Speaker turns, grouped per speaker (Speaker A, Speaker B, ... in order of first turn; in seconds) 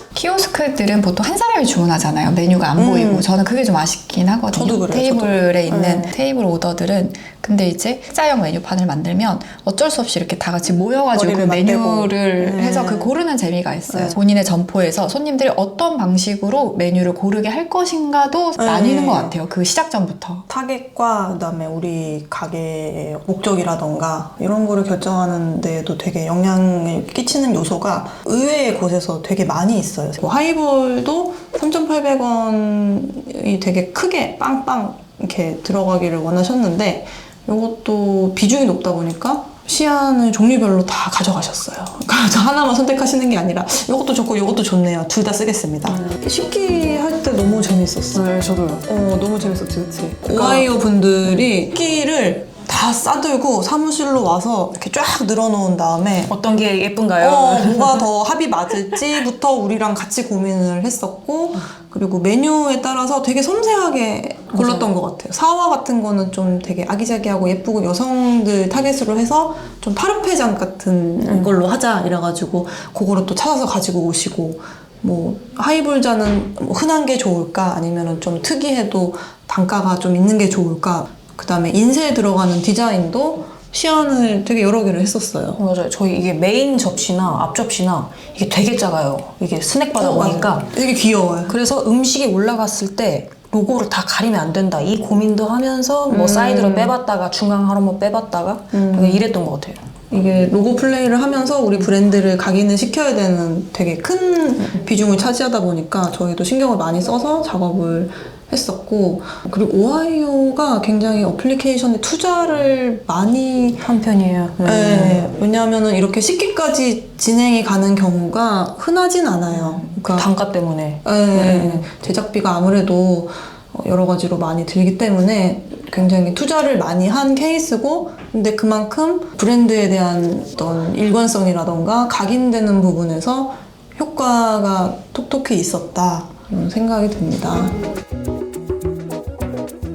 Speaker A: 0.1-20.4
Speaker B: 2.8-3.3, 4.5-6.1, 11.1-13.1, 13.9-14.2, 18.6-19.4, 20.5-46.1, 48.8-56.3, 57.2-85.6, 89.9-91.5, 96.1-96.9, 98.7-99.3, 100.1-113.8, 114.6-120.3, 121.0-137.8
Speaker C: 46.0-48.8, 50.2-50.7, 56.3-58.0, 64.5-64.9, 71.2-71.5, 85.6-90.7, 91.5-99.8, 113.8-115.2, 120.0-121.8